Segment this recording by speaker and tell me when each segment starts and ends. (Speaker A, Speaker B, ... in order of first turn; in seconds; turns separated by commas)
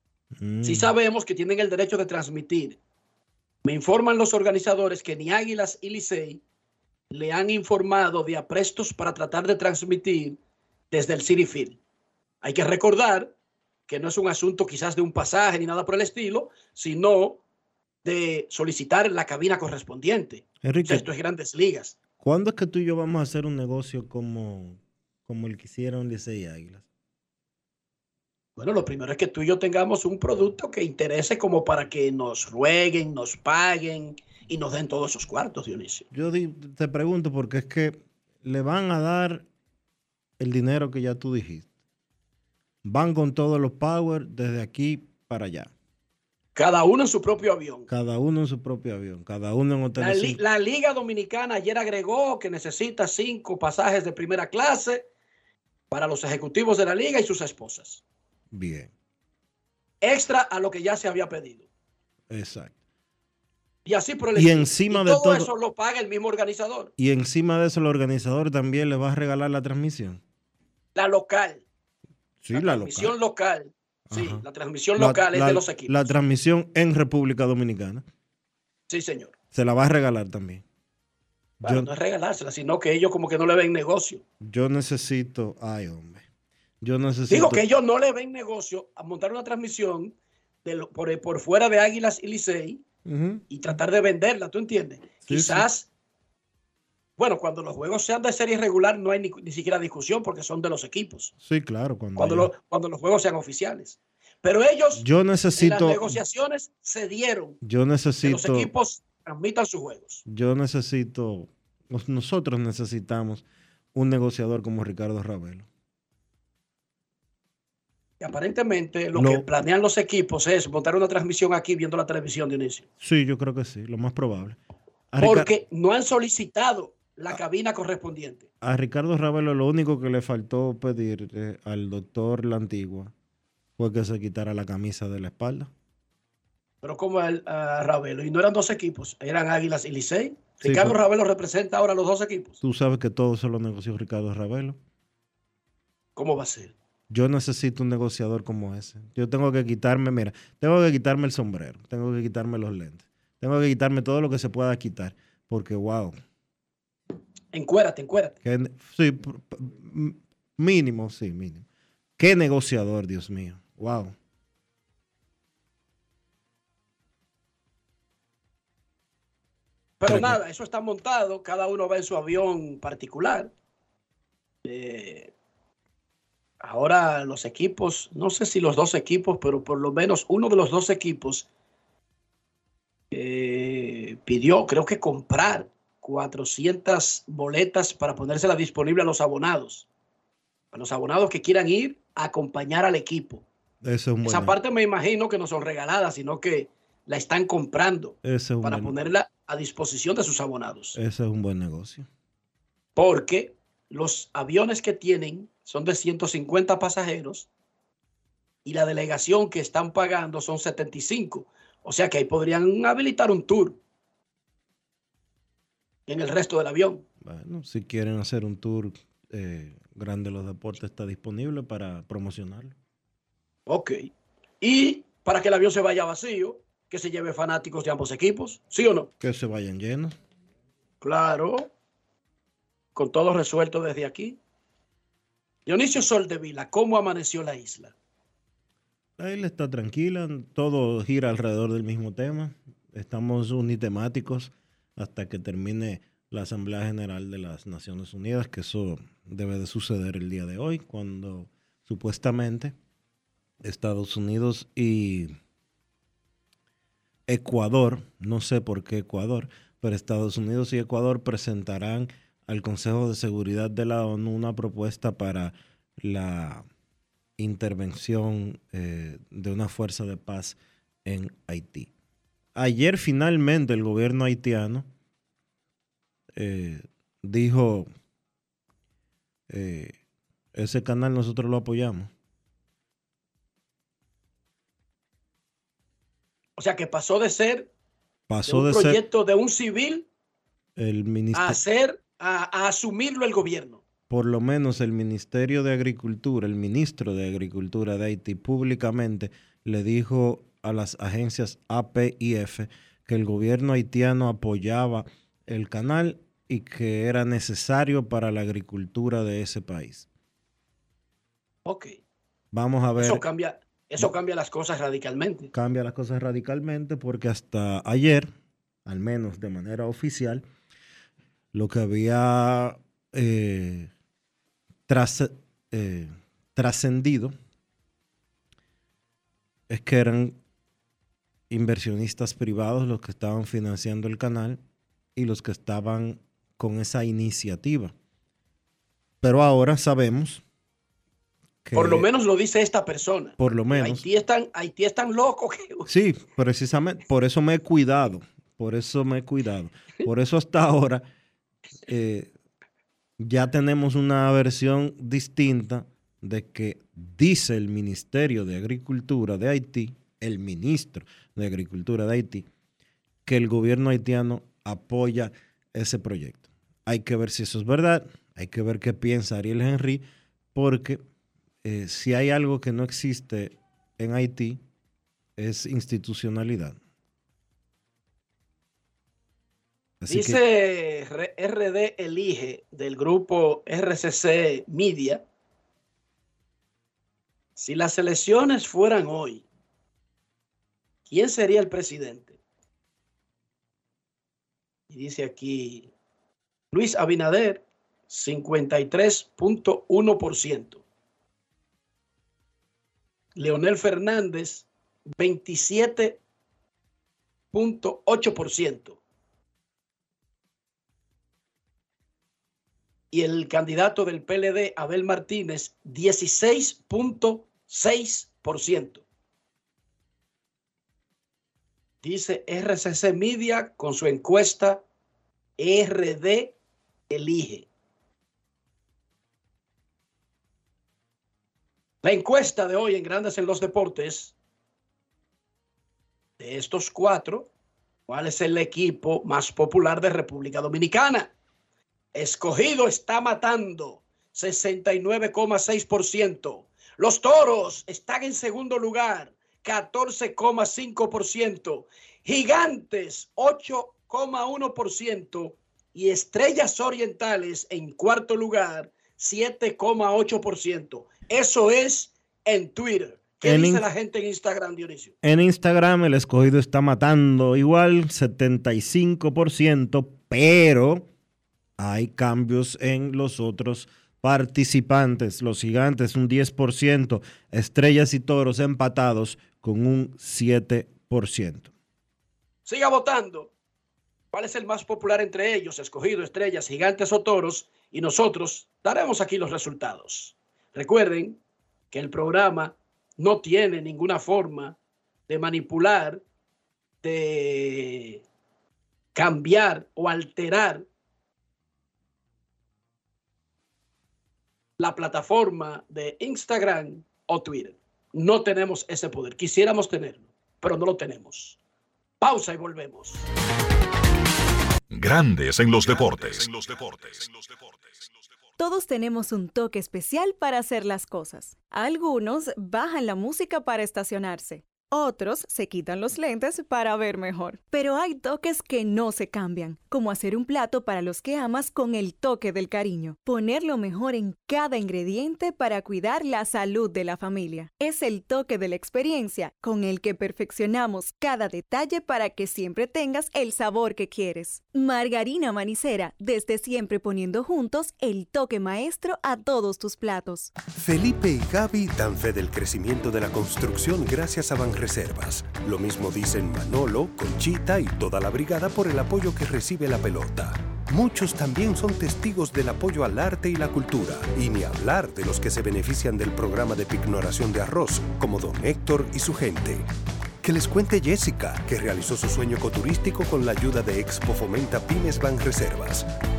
Speaker A: 0.4-0.9, Speaker B: 0.6-2.8, Speaker B: 3.6-6.4, Speaker B: 7.1-10.4, Speaker B: 10.9-11.8, Speaker B: 12.4-13.3, Speaker B: 13.9-17.4, Speaker B: 18.0-21.9, Speaker A: 20.6-21.1, Speaker A: 22.2-26.8, Speaker B: 28.6-36.0, Speaker A: 36.1-39.5, Speaker A: 40.4-41.7, Speaker A: 42.8-45.7, Speaker B: 46.5-47.9, Speaker A: 47.9-50.4, Speaker B: 50.0-55.0, Speaker B: 55.9-58.0, Speaker A: 58.5-58.9, Speaker B: 60.0-61.6, Speaker A: 62.3-62.7, Speaker B: 63.8-66.9, Speaker A: 64.3-65.5, Speaker A: 67.0-70.2, Speaker B: 70.9-71.6, Speaker A: 72.4-73.1, Speaker B: 72.5-76.1, Speaker A: 74.1-74.4, Speaker A: 75.0-78.0, Speaker B: 78.9-79.3, Speaker A: 79.5-80.6, Speaker A: 81.6-81.9, Speaker B: 81.6-84.2, Speaker A: 84.4-86.2, Speaker A: 86.8-87.6, Speaker B: 87.3-92.8, Speaker A: 93.0-93.4, Speaker B: 93.5-95.9, Speaker A: 95.2-95.7, Speaker B: 97.2-101.3, Speaker A: 101.4-102.5, Speaker B: 102.2-105.0, Speaker A: 105.0-106.2, Speaker B: 105.5-107.6, Speaker A: 107.6-108.7, Speaker B: 108.2-110.2, Speaker A: 110.2-115.7, Speaker B: 118.2-122.8, Speaker A: 119.1-119.5, Speaker A: 123.0-124.6, Speaker A: 125.1-125.5, Speaker B: 125.2-128.5, Speaker A: 128.6-133.1, Speaker A: 133.8-135.7, Speaker B: 136.8-142.6, Speaker A: 140.6-140.9, Speaker A: 142.6-144.8, Speaker B: 146.2-146.7, Speaker A: 147.1-156.2, Speaker B: 157.5-158.3, Speaker A: 158.4-161.6, Speaker A: 162.2-164.1, Speaker B: 170.0-173.5, Speaker A: 170.1-170.4, Speaker B: 174.6-175.3, Speaker B: 176.6-181.5, Speaker B: 183.1-189.8, Speaker B: 190.7-193.4, Speaker A: 193.8-194.6, Speaker B: 194.2-200.9, Speaker A: 198.2-199.0, Speaker A: 200.9-202.1, Speaker B: 202.9-207.5, Speaker B: 208.6-213.8, Speaker B: 216.1-217.0, Speaker A: 217.2-222.7, Speaker B: 223.7-224.1, Speaker B: 224.6-229.1, Speaker A: 229.2-230.2, Speaker B: 231.0-231.7, Speaker B: 232.9-234.4, Speaker B: 235.7-237.9, Speaker A: 239.2-252.7, Speaker A: 253.6-255.3, Speaker A: 257.3-266.6, Speaker A: 267.4-271.9, Speaker A: 272.5-274.9, Speaker A: 276.3-277.9, Speaker A: 279.5-279.9, Speaker A: 280.5-282.1, Speaker B: 286.6-287.7, Speaker A: 288.3-289.0, Speaker B: 288.5-290.1, Speaker A: 290.8-291.6, Speaker B: 291.3-293.8, Speaker A: 294.1-310.1, Speaker B: 311.6-311.9, Speaker A: 312.5-313.2, Speaker B: 312.9-315.5, Speaker A: 315.5-318.3, Speaker A: 318.8-320.4, Speaker A: 321.5-323.9, Speaker A: 324.9-327.3, Speaker A: 329.7-330.4, Speaker A: 331.5-334.6, Speaker A: 335.1-337.9, Speaker A: 339.2-340.4, Speaker A: 341.6-342.0, Speaker B: 341.7-345.9, Speaker A: 343.4-344.0, Speaker A: 345.9-351.0, Speaker A: 351.9-352.3, Speaker A: 353.2-362.5, Speaker A: 363.2-370.0, Speaker A: 370.5-371.0, Speaker A: 371.6-374.6, Speaker A: 375.4-376.8, Speaker A: 380.0-380.4, Speaker B: 380.1-385.2, Speaker B: 387.6-389.4, Speaker B: 391.1-392.4, Speaker B: 394.9-395.9, Speaker B: 396.7-400.8, Speaker B: 403.4-404.7, Speaker B: 405.2-406.2, Speaker B: 407.5-409.0, Speaker B: 413.1-419.0, Speaker B: 422.0-424.8, Speaker B: 425.6-426.5, Speaker B: 427.1-427.6, Speaker B: 432.0-434.3, Speaker B: 436.4-437.5, Speaker B: 438.1-441.3, Speaker B: 442.1-465.1, Speaker A: 463.4-463.8, Speaker A: 465.2-471.1, Speaker A: 471.8-481.7, Speaker B: 482.6-483.5, Speaker B: 484.3-491.4, Speaker B: 491.9-494.8, Speaker B: 495.3-496.2, Speaker B: 497.0-498.2, Speaker B: 499.1-500.8, Speaker B: 504.8-511.6, Speaker B: 512.2-513.2, Speaker C: 514.9-518.1, Speaker D: 518.6-550.5, Speaker E: 550.7-569.9, Speaker E: 570.4-576.1